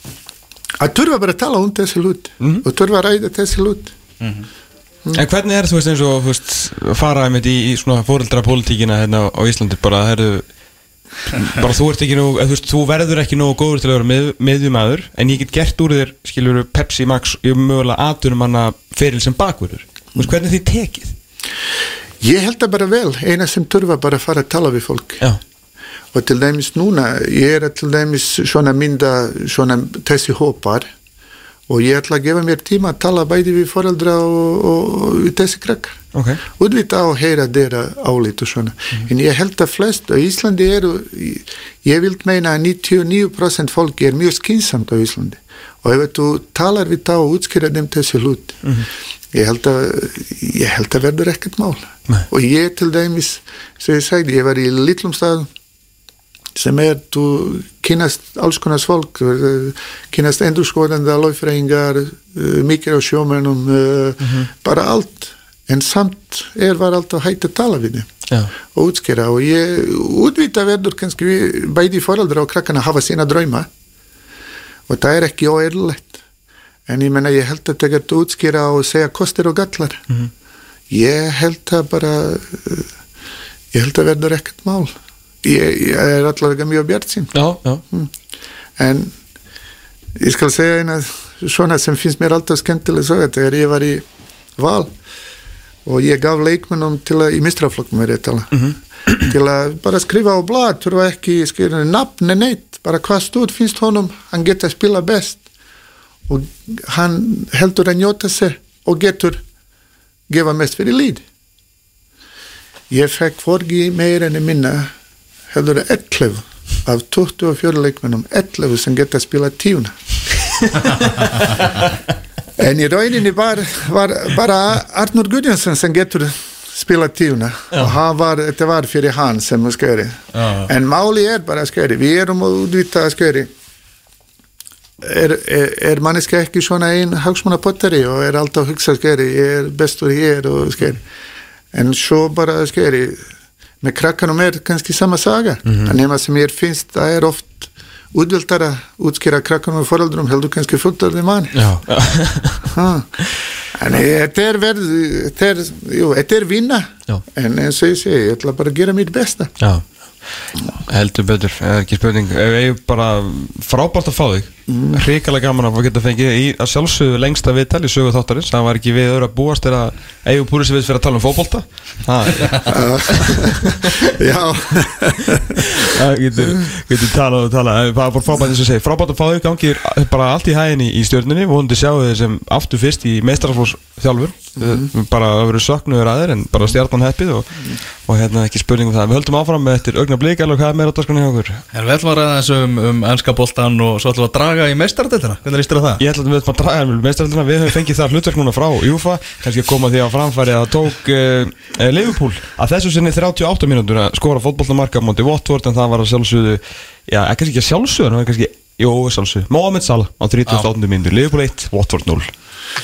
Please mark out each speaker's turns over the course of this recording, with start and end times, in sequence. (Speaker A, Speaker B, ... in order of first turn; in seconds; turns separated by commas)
Speaker A: 0.8-3.9, Speaker B: 2.4-2.6, Speaker C: 4.2-4.5, Speaker B: 5.1-10.4, Speaker B: 11.3-21.1, Speaker A: 22.2-25.2, Speaker A: 26.1-30.9, Speaker A: 31.7-36.0, Speaker B: 36.1-36.4, Speaker A: 36.6-48.6, Speaker A: 49.3-55.5, Speaker A: 56.5-68.1, Speaker A: 68.7-73.7, Speaker A: 74.9-76.2, Speaker A: 76.9-80.0, Speaker A: 80.9-82.9, Speaker A: 83.7-87.3, Speaker B: 87.3-87.8, Speaker A: 88.8-89.1, Speaker A: 90.2-94.0, Speaker A: 94.6-94.9, Speaker A: 95.8-105.4, Speaker A: 106.3-109.4, Speaker A: 110.3-111.2, Speaker A: 112.9-114.9, Speaker A: 115.5-119.9, Speaker A: 122.6-133.5, Speaker A: 135.0-141.0, Speaker A: 141.7-143.2, Speaker A: 143.8-151.6, Speaker B: 151.5-152.7, Speaker A: 152.7-153.2, Speaker A: 153.7-159.5, Speaker B: 159.6-159.9, Speaker B: 160.8-174.0, Speaker A: 164.7-165.0, Speaker A: 172.7-175.7, Speaker B: 175.6-191.6, Speaker C: 191.7-196.0, Speaker B: 196.0-212.3